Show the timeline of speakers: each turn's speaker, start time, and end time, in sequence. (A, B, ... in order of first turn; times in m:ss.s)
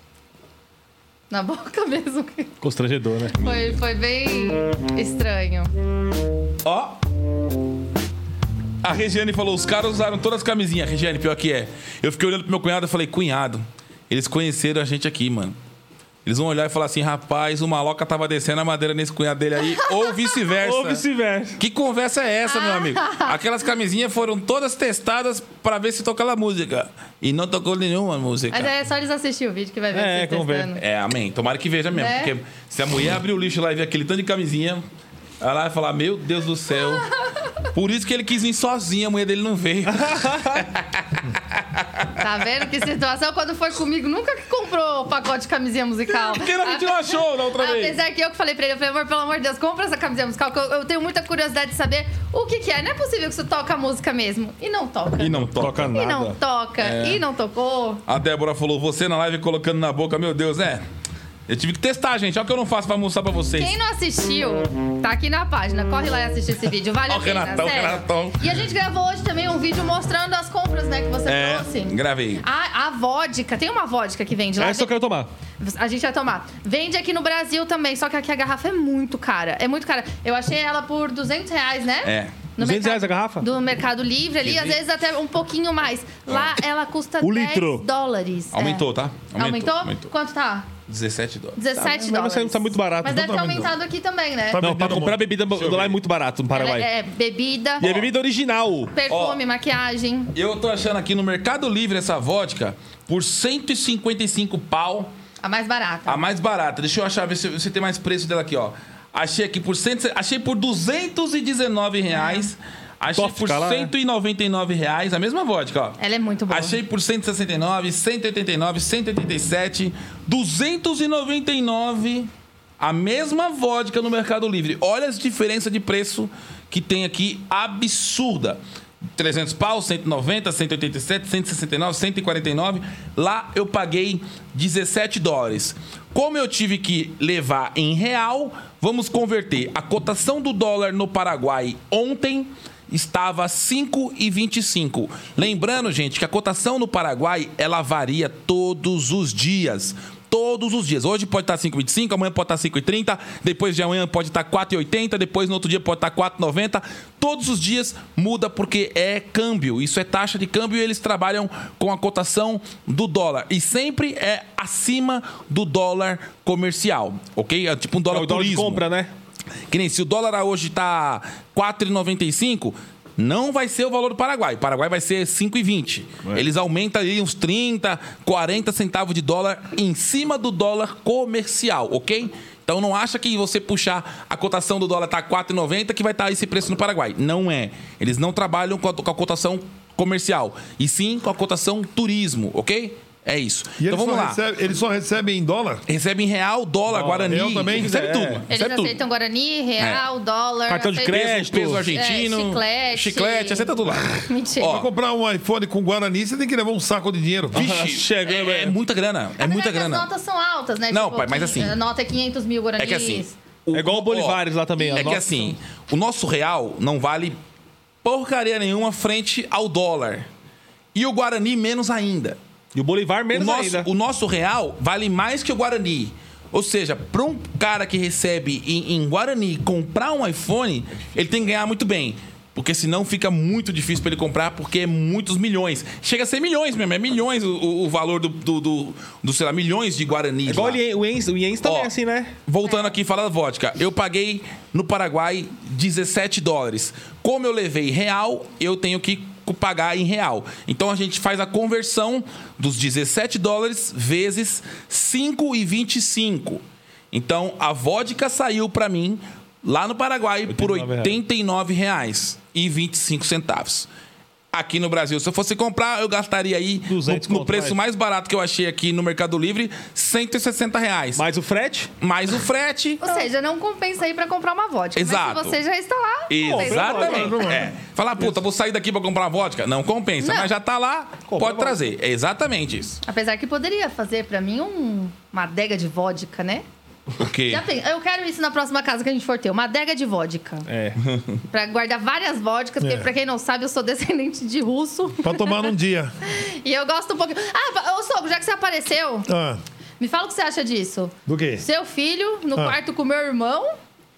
0:01.3-0:02.5 A
0:02.6-0:03.3 B
0:03.4-0:05.7 A
0:06.6-0:07.0 C
0:08.8-0:15.6 C
0:16.2-0:21.0 C
0:20.6-0:21.6 B
0:21.6-0:28.7 C
0:22.5-0:23.3 A
0:28.5-0:30.8 A
0:29.9-0:30.7 B
0:30.8-0:34.8 C
0:31.9-0:32.3 A
0:35.4-0:37.1 C
0:37.6-0:42.1 C
0:39.9-0:40.6 B
0:42.2-0:55.4 A
0:46.1-0:48.0 C
0:55.2-0:55.9 C
0:55.3-0:56.4 B
0:55.9-0:58.0 A
0:56.8-0:57.2 C
0:58.1-1:00.8 C
1:01.5-1:03.8 C
1:03.6-1:14.9 A
1:07.1-1:08.5 C
1:11.3-1:12.4 C
1:14.6-1:15.3 B
1:15.6-1:30.7 A
1:22.0-1:22.3 C
1:22.6-1:23.4 B
1:24.4-1:24.8 C
1:27.2-1:27.8 B
1:28.5-1:30.1 C
1:30.9-1:31.6 C
1:31.6-1:34.6 A
1:31.8-1:33.4 B
1:33.0-1:33.7 D
1:34.5-1:35.2 D
1:34.6-1:36.9 B
1:35.5-1:36.0 C
1:36.5-1:37.8 A
1:37.8-1:38.1 C
1:37.8-1:38.9 B
1:38.9-1:40.3 A
1:39.1-1:39.4 C
1:40.3-1:45.1 C
1:45.4-1:46.2 A
1:46.1-1:56.0 C
1:52.1-1:52.5 A
1:53.1-1:53.9 B
1:56.0-1:56.8 A
1:56.5-2:08.6 C
2:09.2-2:48.8 C
2:48.1-2:49.1 B
2:49.7-3:14.4 C
3:13.8-3:15.8 D
3:15.9-3:19.0 C
3:16.9-3:18.4 B
3:17.2-3:18.0 D
3:18.5-3:21.2 A
3:19.8-3:20.0 C
3:20.7-3:21.9 B
3:21.0-3:24.9 C
3:21.9-3:24.8 A
3:24.6-3:27.6 D
3:27.5-3:28.7 B
3:27.5-3:30.1 C
3:29.4-3:33.3 A
3:30.9-3:31.8 C
3:32.8-3:37.4 C
3:33.7-3:35.5 B
3:34.8-3:35.2 A
3:38.0-3:40.3 C
3:40.9-3:42.4 C
3:42.7-3:43.9 B
3:43.3-4:00.8 C
4:00.5-4:02.3 B
4:01.6-4:01.9 C
4:02.4-4:23.9 C
4:02.6-4:02.9 A
4:20.5-4:21.2 B
4:24.5-4:31.2 C
4:26.9-4:27.8 B
4:31.2-4:31.9 B
4:32.0-4:33.1 C
4:33.0-4:37.3 A
4:35.0-4:35.6 C
4:36.3-4:43.0 C
4:36.4-4:37.5 B
4:37.0-4:37.7 D
4:40.2-4:40.5 A
4:41.3-4:41.8 B
4:43.0-4:46.6 A
4:47.2-4:47.6 C
4:47.5-4:50.6 A
4:50.7-4:51.0 B
4:51.0-4:51.4 C
4:51.5-4:55.6 A
4:52.8-4:53.1 D
4:55.2-4:56.1 D
4:56.2-4:59.3 A
4:59.3-4:59.6 D
5:00.0-5:03.7 A
5:01.2-5:01.6 D